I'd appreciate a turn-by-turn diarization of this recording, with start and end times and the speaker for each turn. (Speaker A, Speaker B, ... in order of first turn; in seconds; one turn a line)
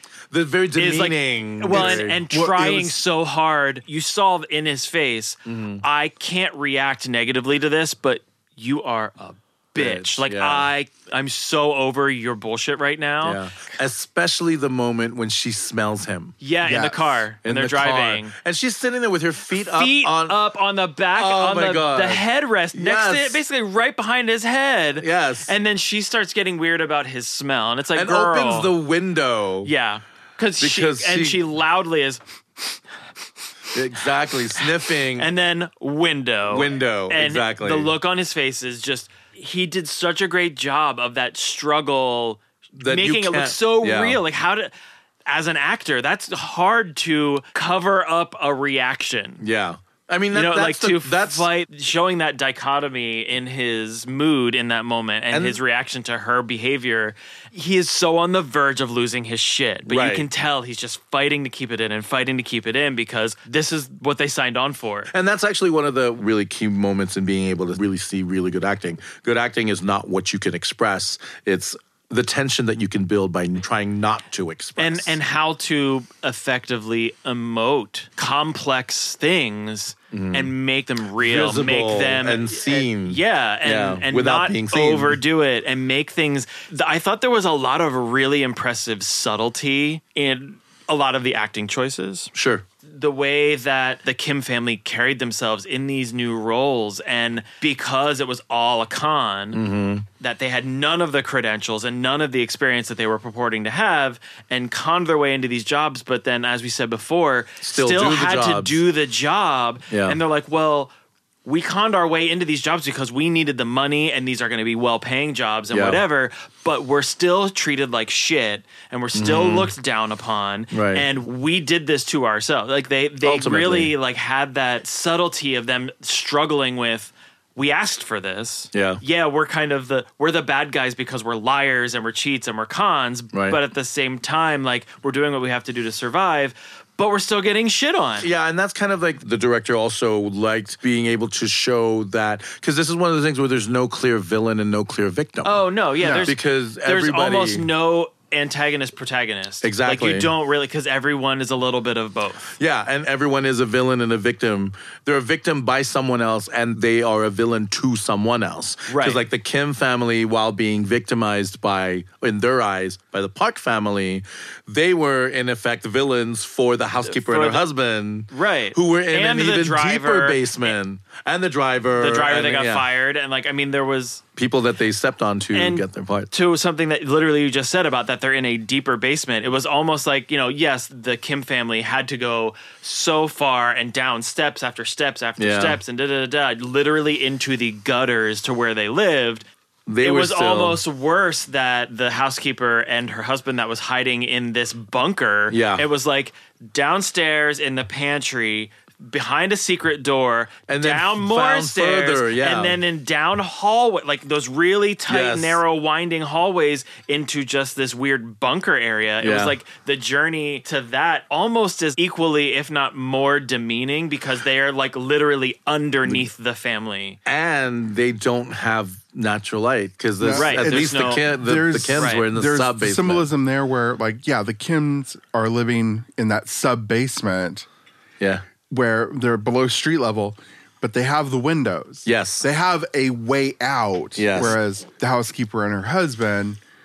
Speaker A: 0.3-2.2
Speaker B: 0.8-13.4
Speaker C: 1.7-3.0
Speaker A: 5.5-5.8
Speaker A: 9.8-10.7
Speaker A: 13.2-16.4
Speaker B: 16.4-18.4
Speaker C: 16.6-17.2
Speaker A: 17.4-20.4
Speaker B: 19.6-28.7
Speaker A: 21.2-23.4
Speaker A: 25.0-25.5
Speaker A: 27.9-29.7
Speaker B: 29.6-32.2
Speaker A: 30.6-31.4
Speaker A: 33.7-35.3
Speaker B: 34.6-44.7
Speaker A: 36.5-37.9
Speaker A: 42.8-44.2
Speaker B: 45.3-49.4
Speaker A: 49.4-51.5
Speaker B: 50.3-65.1
Speaker A: 55.3-55.6
Speaker A: 59.9-60.3
Speaker A: 65.1-75.2
Speaker B: 74.8-92.3
Speaker A: 80.1-80.5
Speaker A: 81.2-85.2
Speaker A: 92.3-92.6
Speaker B: 92.8-99.6
Speaker A: 99.5-100.1
Speaker B: 100.2-110.9
Speaker A: 107.6-108.8
Speaker A: 109.9-110.2
Speaker B: 111.5-138.3
Speaker A: 115.7-116.0
Speaker A: 119.1-119.7
Speaker A: 120.7-121.1
Speaker A: 123.2-123.9
Speaker A: 128.7-129.0
Speaker A: 133.3-133.6
Speaker A: 138.2-147.7
Speaker B: 145.4-152.5
Speaker C: 146.0-146.3
Speaker A: 149.6-150.3
Speaker A: 152.6-172.9
Speaker B: 158.9-159.2
Speaker B: 167.1-167.7
Speaker B: 168.3-170.8
Speaker B: 172.0-174.2
Speaker A: 174.4-176.3
Speaker B: 175.5-189.5
Speaker A: 185.4-185.8
Speaker A: 189.9-190.8
Speaker B: 190.0-217.2
Speaker A: 195.5-195.8
Speaker A: 200.7-202.8
Speaker A: 205.1-205.6
Speaker A: 209.2-209.6
Speaker A: 217.3-223.3
Speaker C: 220.2-227.7
Speaker B: 220.3-221.3
Speaker B: 222.0-222.3
Speaker C: 228.7-236.6
Speaker A: 232.1-232.5
Speaker A: 234.2-234.6